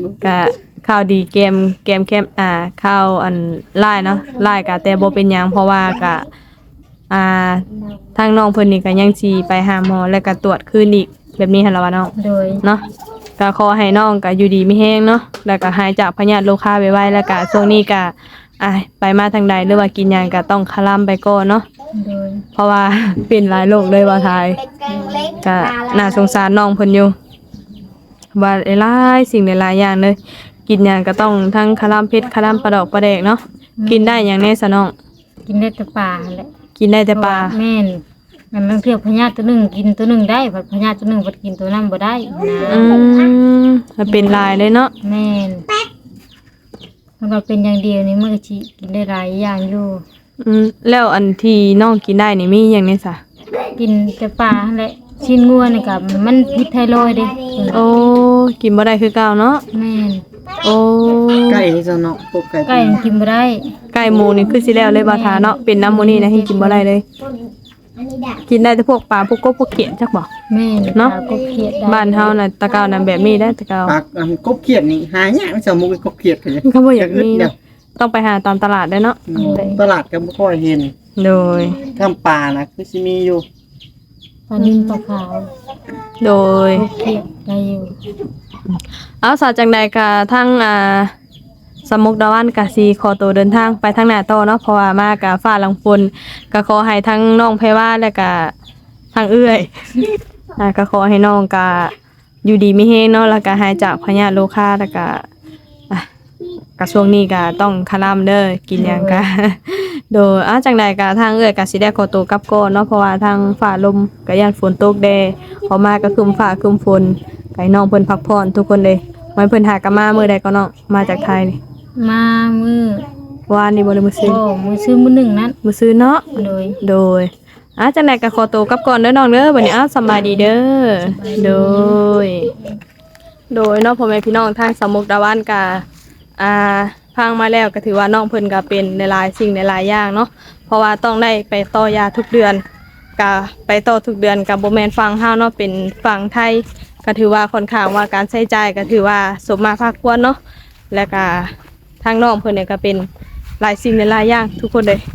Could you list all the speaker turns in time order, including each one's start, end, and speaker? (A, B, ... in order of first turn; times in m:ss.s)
0:00.2-0:06.3 A
0:07.1-0:12.8 A
0:12.2-0:12.6 B
0:13.4-0:21.7 A
0:21.9-0:22.4 B
0:22.6-0:24.7 A
0:24.9-0:25.4 B
0:25.4-0:27.2 A
0:28.4-0:34.9 A
0:33.8-0:34.3 B
0:35.5-0:36.5 B
0:36.8-0:37.6 A
0:37.1-0:38.0 B
0:38.5-0:43.0 B
0:42.7-0:44.9 A
0:44.1-0:44.4 B
0:45.0-0:45.7 B
0:47.2-0:50.0 B
0:50.4-0:53.2 A
0:53.8-0:57.9 B
0:57.7-0:59.6 A
0:59.7-1:00.2 B
1:00.6-1:01.7 A
1:01.5-1:03.0 C
1:02.7-1:03.7 B
1:03.9-1:07.0 A
1:04.9-1:06.9 B
1:08.4-1:10.3 A
1:10.5-1:12.4 B
1:11.0-1:11.2 A
1:11.8-1:14.0 A
1:13.9-1:17.5 C
1:16.6-1:19.7 A
1:19.3-1:20.9 C
1:19.4-1:19.8 B
1:21.2-1:21.9 A
1:21.9-1:23.4 C
1:24.5-1:25.5 B
1:24.6-1:25.0 A
1:26.2-1:26.9 A
1:26.7-1:28.0 B
1:28.7-1:31.1 A
1:31.9-1:38.5 A
1:39.1-1:41.9 A
1:42.4-1:45.2 A
1:46.8-2:01.6 A
1:48.8-1:49.2 B
2:02.0-2:03.1 B
2:03.5-2:04.4 A
2:04.2-2:05.6 B
2:05.6-2:06.3 A
2:06.3-2:06.8 B
2:06.8-2:12.5 A
2:10.1-2:10.5 B
2:11.0-2:12.0 B
2:13.5-2:15.8 A
2:16.4-2:22.6 A
2:23.2-2:30.4 A
2:30.9-2:33.1 A
2:33.6-2:35.0 A